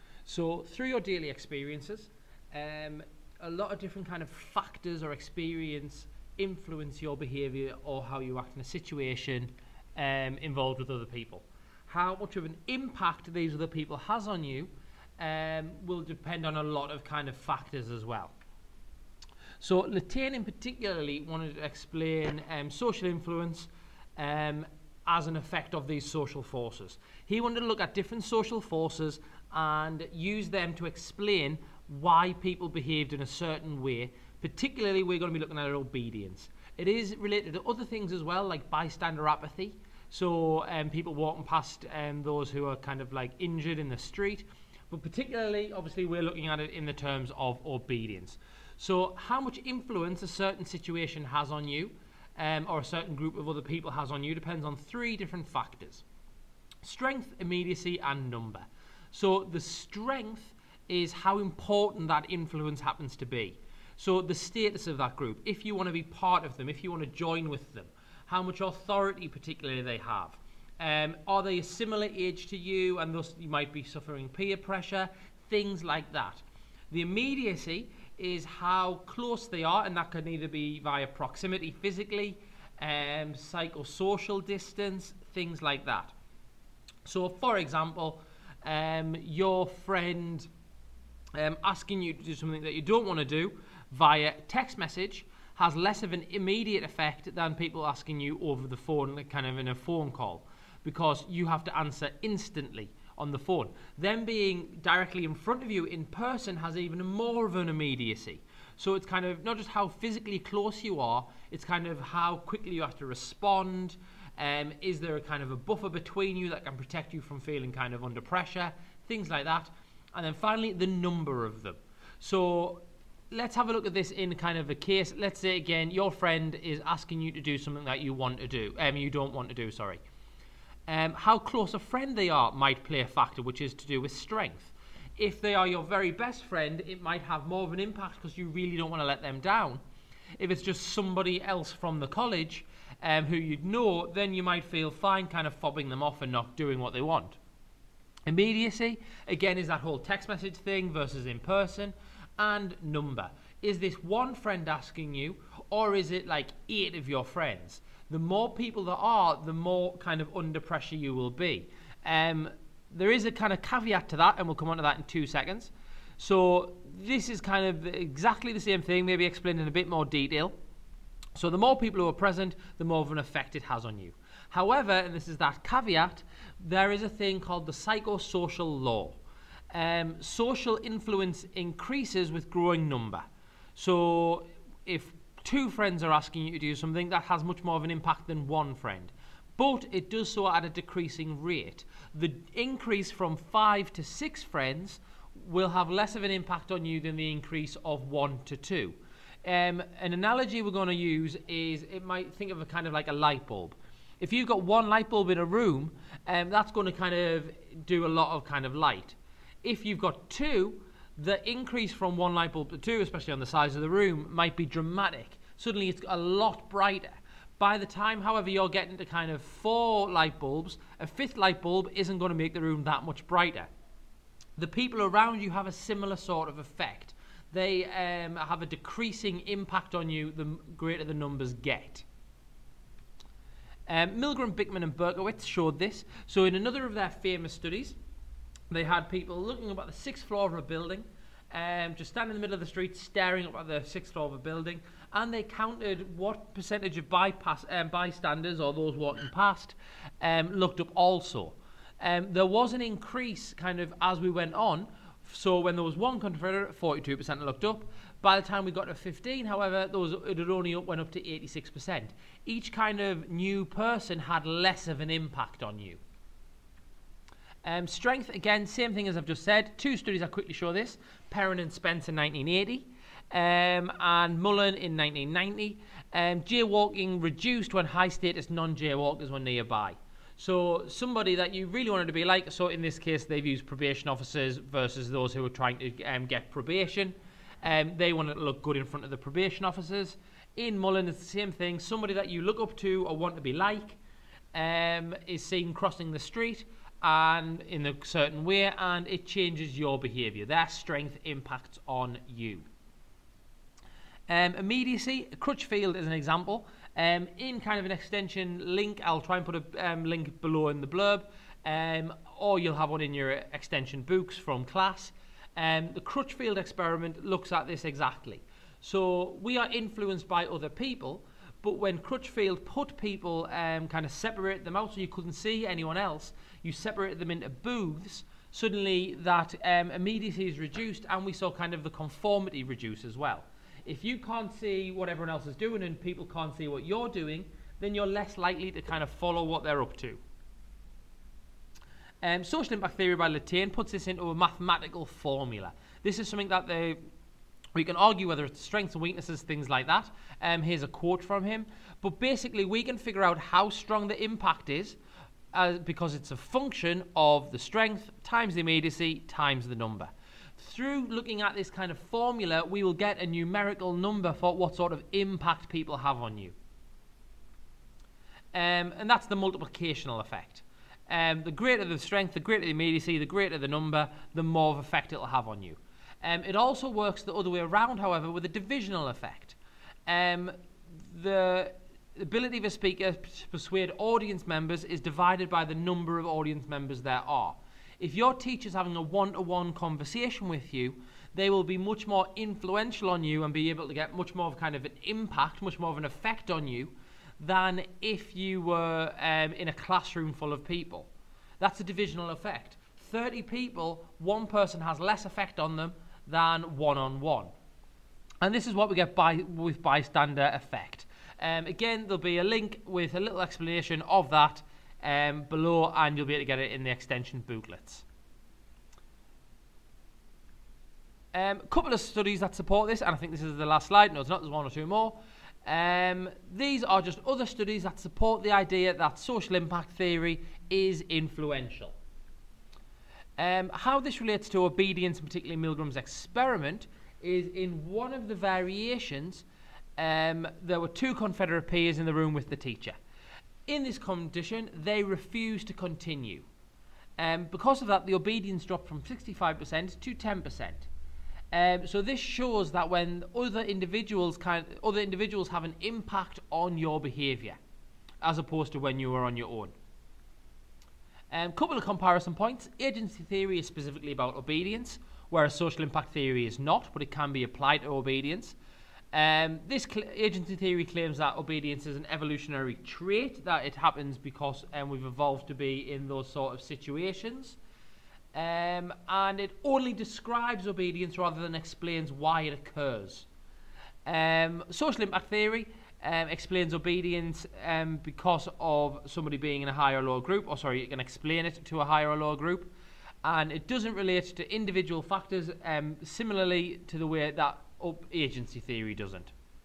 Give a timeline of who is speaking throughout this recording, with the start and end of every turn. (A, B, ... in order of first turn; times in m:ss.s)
0:00.3-0:18.4 A
0:19.6-0:56.0 A
0:56.8-1:26.1 A
1:27.0-1:30.5 A
1:31.4-2:10.0 A
2:10.9-2:19.8 A
2:20.4-2:27.4 A
2:28.3-2:50.6 A
2:51.4-2:59.2 A
2:59.7-3:03.2 A
3:03.8-3:43.7 A
3:44.6-3:52.0 A
3:53.9-3:58.0 A
3:58.7-4:26.0 A
4:27.6-4:54.0 A
4:54.5-5:02.7 A
5:04.3-5:40.2 A
5:42.2-5:47.0 A
5:47.8-5:55.0 A
5:55.5-6:06.6 A
6:08.5-6:47.5 A
6:48.4-6:58.0 A
7:01.3-7:12.0 A
7:13.4-7:19.4 A
7:20.0-7:23.0 A
7:23.7-7:26.5 A
7:27.2-7:30.9 A
7:31.5-7:37.6 A
7:38.2-7:39.7 A
7:41.3-7:48.6 A
7:49.1-7:57.6 A
7:58.3-8:03.3 A
8:04.1-8:12.7 A
8:13.2-8:19.3 A